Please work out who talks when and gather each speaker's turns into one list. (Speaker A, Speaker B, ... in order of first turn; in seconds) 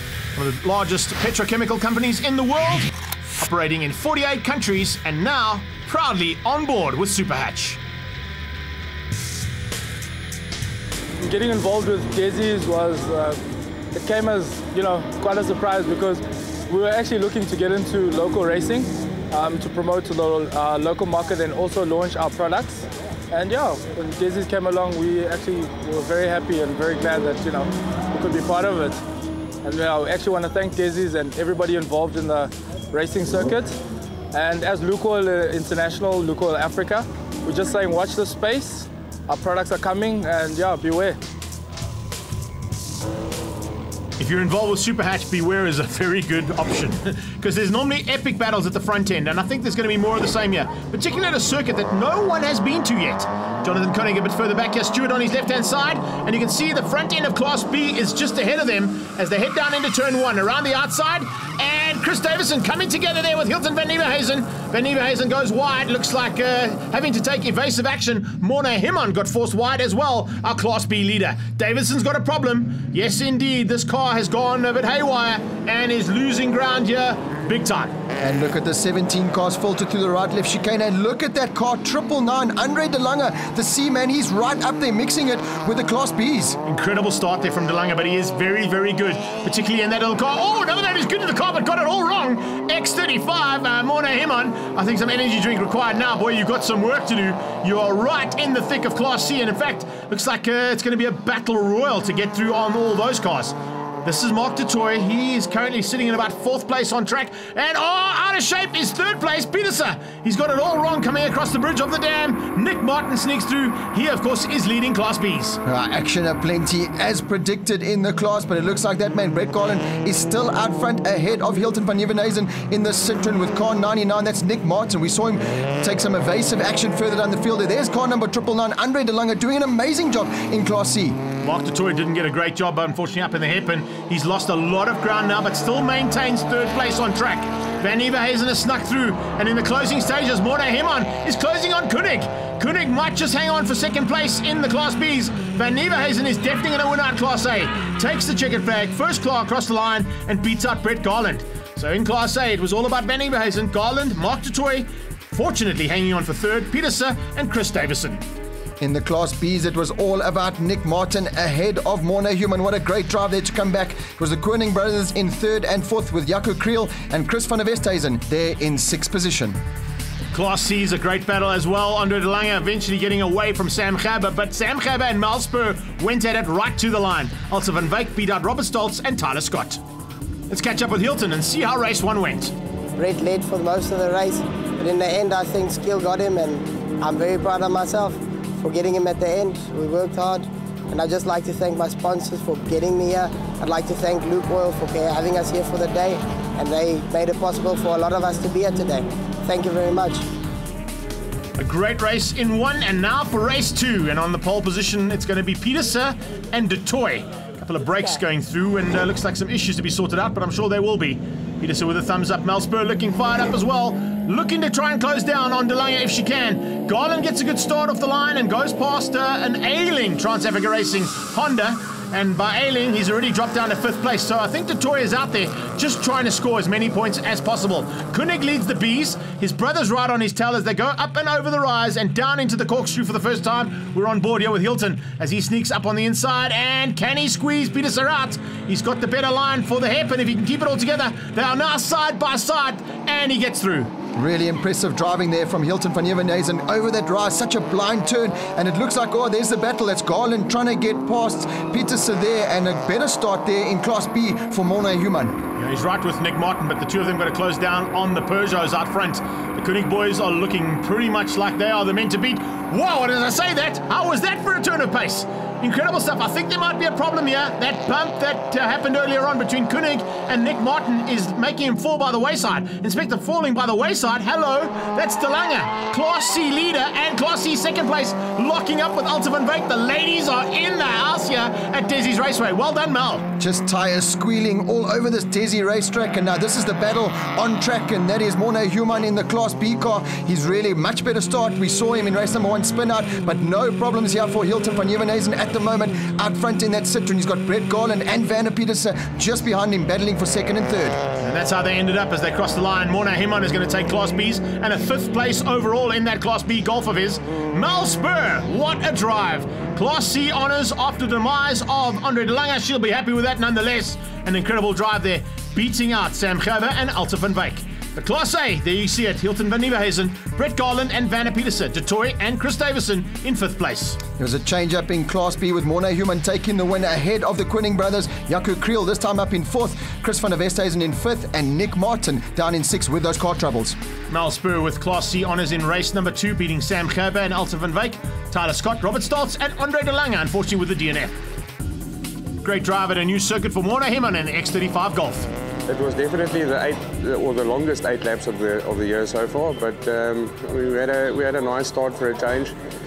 Speaker A: 0.3-7.8, 44.2-78.0, 86.6-115.6, 131.4-158.2, 170.3-179.8, 180.5-182.5, 201.6-243.9, 255.6-283.2, 301.2-324.0, 334.1-341.1, 342.4-345.3
Speaker B: 11.2-13.4, 13.9-29.0, 29.6-33.7, 34.3-41.2
Speaker C: 78.2-86.6, 115.6-131.2, 158.8-169.6, 244.1-255.3, 283.4-301.0, 324.2-333.8
Speaker D: 183.0-200.2
Speaker E: 345.7-352.5